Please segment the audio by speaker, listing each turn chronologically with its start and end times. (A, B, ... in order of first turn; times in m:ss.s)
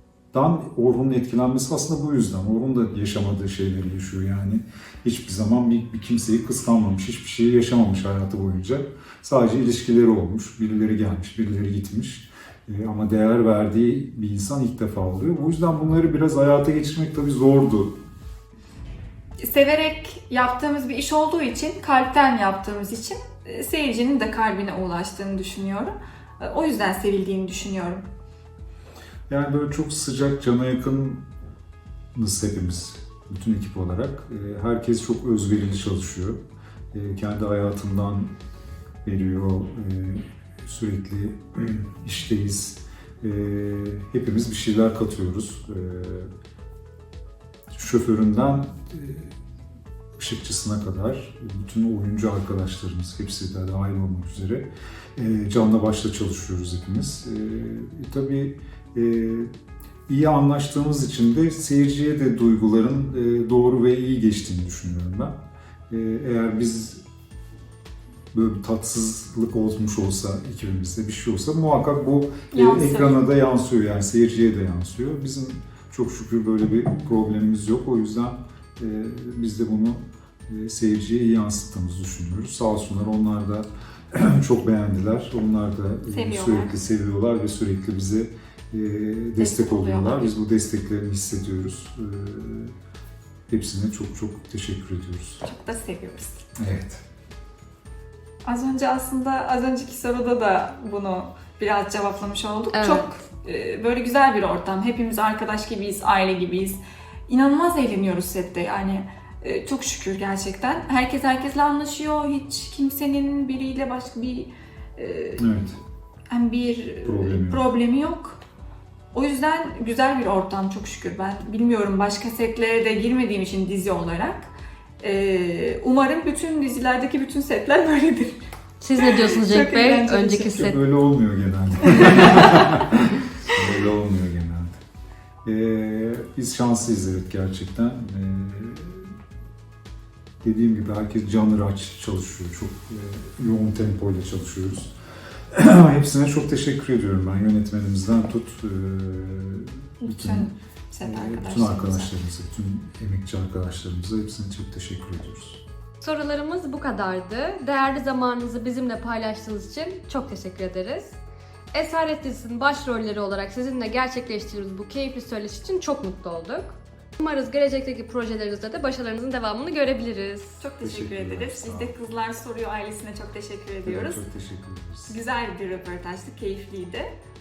0:00.3-0:18.0 A
0:19.4-0:28.1 B
0:29.3-0:31.2 A
0:32.1-0:38.3 A
0:39.0-0:46.3 A
0:47.7-0:49.3 A
0:50.2-0:59.5 A
1:00.1-1:05.4 A
1:05.9-1:07.0 A
1:08.3-1:32.7 A
1:12.5-1:13.2 B
1:26.1-1:26.8 B
1:29.4-1:30.4 B
1:33.5-1:35.4 A
1:35.4-1:36.5 B
1:36.6-1:37.0 A
1:38.4-1:55.5 B
1:42.7-1:43.1 C
1:55.4-1:55.8 A
1:56.3-1:58.4 B
1:57.0-1:57.6 A
1:59.1-2:08.5 B
2:08.8-2:10.8 C
2:09.0-2:10.5 B
2:10.5-2:14.8 A
2:12.0-2:12.2 B
2:15.4-2:19.1 A
2:20.4-2:24.9 A
2:25.5-2:30.5 A
2:30.0-2:32.1 B
2:31.0-2:35.6 A
2:36.0-2:41.2 C
2:41.7-2:50.6 C
2:50.6-2:54.2 B
2:50.8-2:51.9 A
2:53.8-2:55.1 A
2:55.1-2:57.1 B